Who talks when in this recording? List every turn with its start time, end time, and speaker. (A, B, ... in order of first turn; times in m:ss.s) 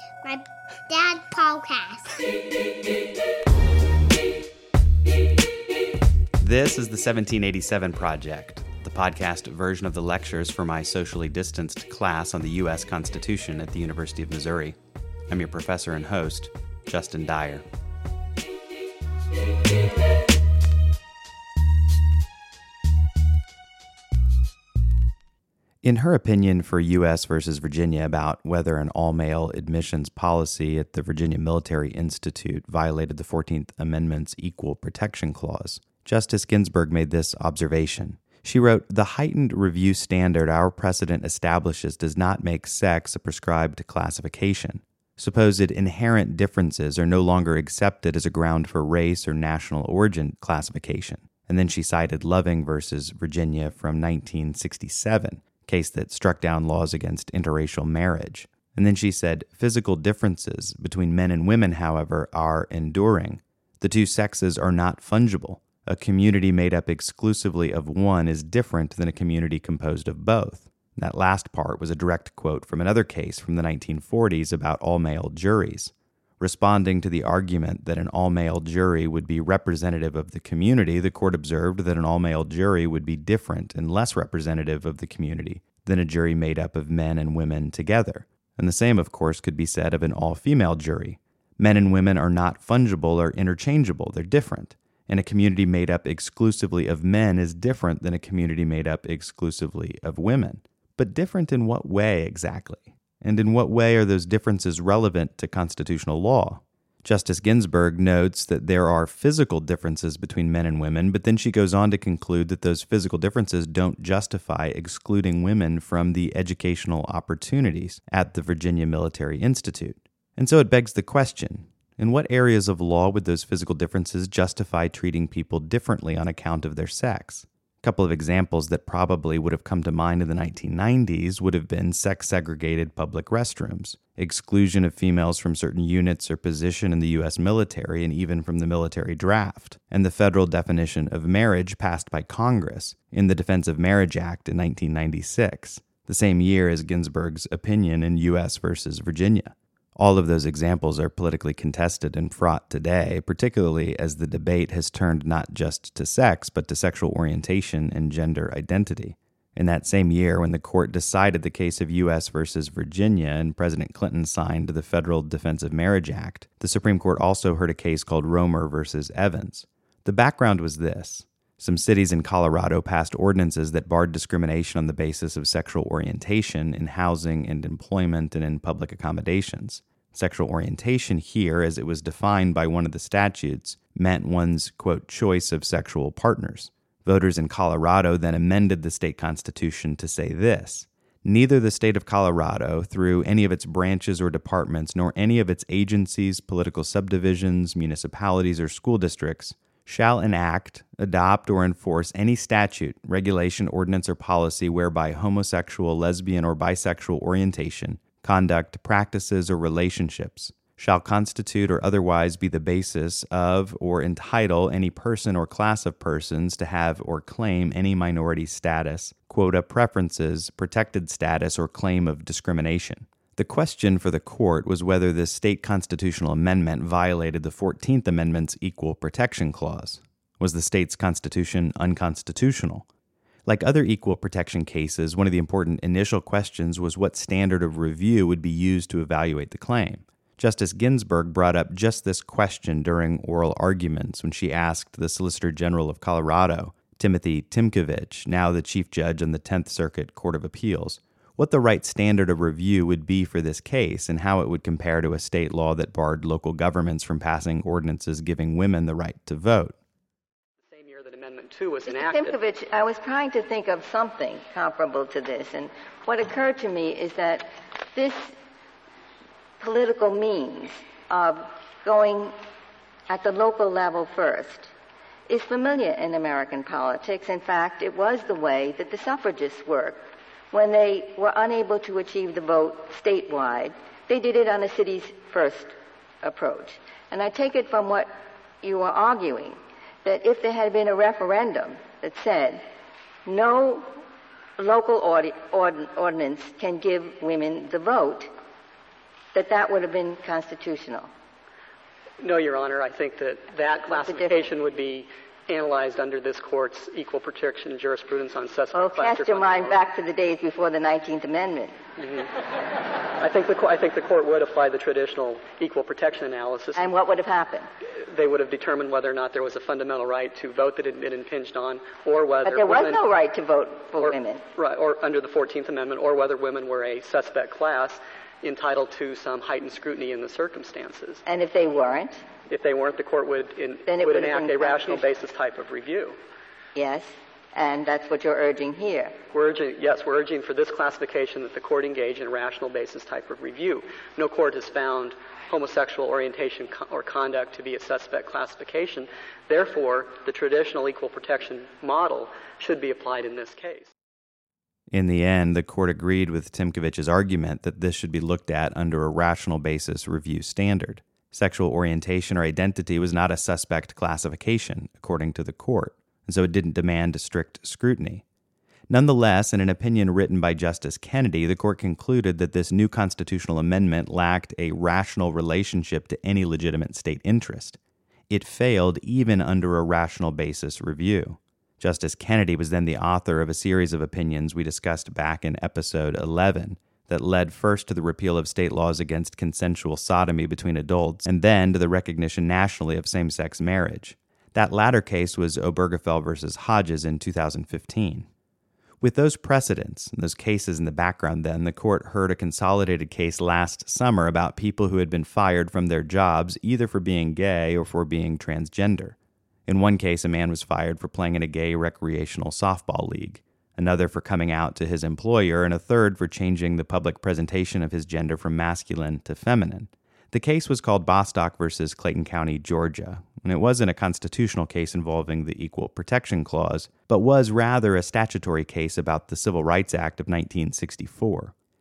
0:00.2-0:02.2 A
0:06.4-0:14.8 B
0:15.3-0:17.6 B
0:25.8-3:52.9 B
3:53.4-4:19.7 B
4:20.6-4:22.4 C
4:21.9-4:28.3 D
4:29.6-4:32.3 D
4:33.1-4:34.7 D
4:35.3-4:48.1 D
4:48.6-4:52.6 D
4:53.2-4:53.8 D
4:54.6-4:58.3 D
4:59.3-5:01.1 D
5:02.2-5:09.8 C
5:03.9-5:04.5 D
5:08.7-5:11.7 D
5:12.0-5:12.3 C
5:13.2-5:16.9 C
5:16.8-5:17.7 D
5:18.1-5:23.0 C
5:22.4-5:24.4 D
5:24.0-5:31.2 C
5:31.2-5:32.2 D
5:32.5-5:36.2 C
5:33.9-5:35.1 D
5:36.7-5:39.1 D
5:39.3-5:53.9 C
5:54.9-6:08.2 B
6:08.9-6:17.8 B
6:18.3-6:38.3 B
6:39.0-6:49.2 B
6:49.7-7:11.5 B